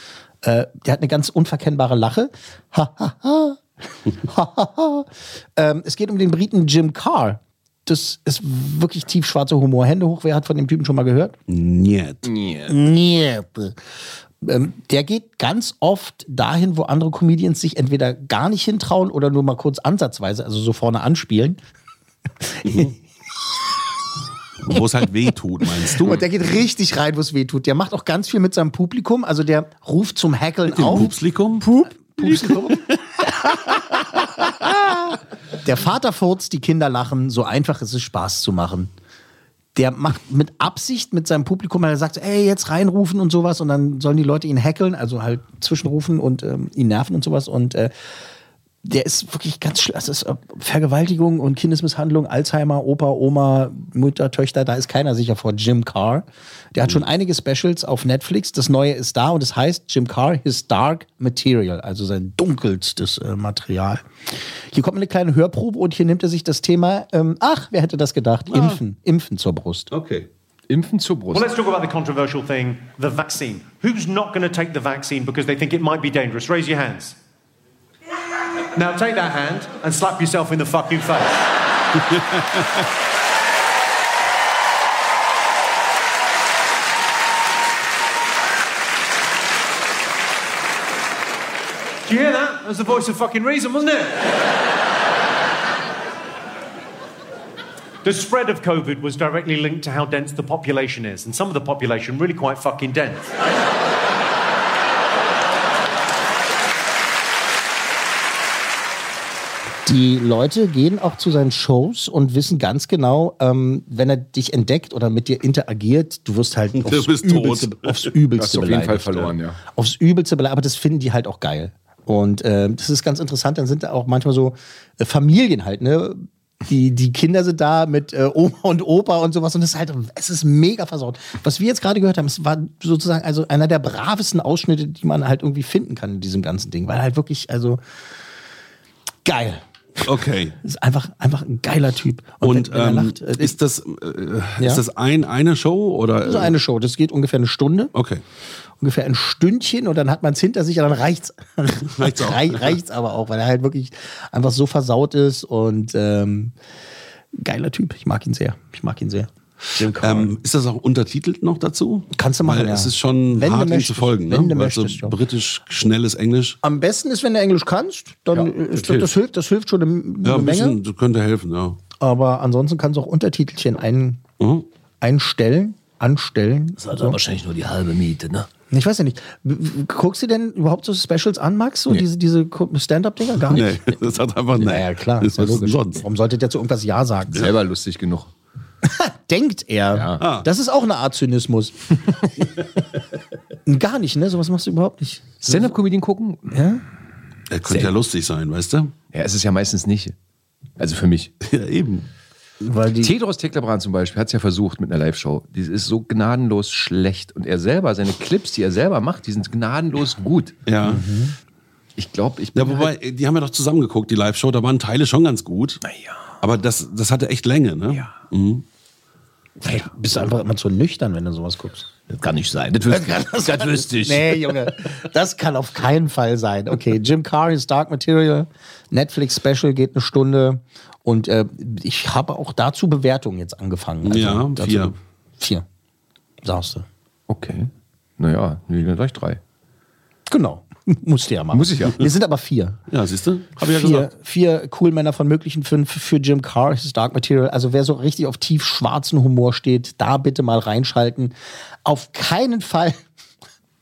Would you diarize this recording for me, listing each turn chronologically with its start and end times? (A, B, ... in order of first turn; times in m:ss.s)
0:00.4-0:11.4 A
0:11.5-0:12.3 B
0:12.2-0:12.8 C
0:12.7-0:13.8 A
0:14.4-0:21.6 A
0:22.6-0:22.9 A
0:22.7-0:22.9 B
0:24.6-0:26.2 B
0:25.9-0:33.8 A
0:30.7-0:31.7 B
0:32.2-0:33.3 B
0:34.4-0:38.9 A
0:39.8-0:47.9 A
0:48.8-1:04.1 A
1:04.7-1:09.9 A
1:08.5-1:08.8 B
1:09.9-1:10.3 B
1:10.7-1:11.5 C
1:11.3-1:17.2 D
1:18.8-1:21.4 D
1:32.1-1:34.3 D
1:38.0-1:43.4 D
1:49.9-2:17.8 A
1:56.8-1:58.1 B
1:58.4-1:59.6 C
2:19.2-2:20.0 A
2:20.0-2:20.6 B
2:20.6-2:23.5 A
2:22.4-2:26.6 B
2:26.2-2:27.9 A
2:27.9-2:28.2 B
2:28.8-2:36.5 A
2:31.9-2:32.8 B
2:37.3-2:40.3 A
2:40.0-2:46.6 B
2:42.2-2:45.2 A
2:46.6-2:50.8 A
2:48.4-2:49.1 C
2:50.2-2:51.8 B
2:52.0-2:54.2 A
2:54.4-2:54.6 B
2:55.0-2:57.2 A
2:56.8-2:58.2 E
2:57.6-2:58.5 C
2:58.7-3:03.8 A
3:03.5-3:06.0 B
3:04.6-3:07.4 A
3:07.3-3:08.3 C
3:08.8-3:11.8 A
3:09.9-3:10.2 C
3:10.2-3:10.5 B
3:13.7-3:15.7 A
3:15.4-3:16.6 C
3:16.5-3:16.8 A
3:17.5-3:18.9 B
3:17.7-3:18.0 C
3:19.1-3:20.2 C
3:20.8-3:21.3 C
3:21.4-3:22.1 B
3:22.6-3:23.1 A
3:23.0-3:30.6 C
3:30.7-3:31.0 B
3:30.8-3:31.4 A
3:32.0-3:32.9 C
3:32.6-3:35.8 B
3:35.8-3:36.2 C
3:36.4-3:38.6 B
3:39.6-3:41.9 A
3:42.2-3:44.1 C
3:42.2-3:44.0 E
3:42.9-3:55.6 A
3:54.0-3:54.9 B
3:56.4-3:56.9 A
3:57.3-3:59.4 C
4:00.3-4:02.8 A
4:01.5-4:02.0 C
4:02.9-4:04.1 B
4:03.6-4:11.3 A
4:11.8-4:13.0 A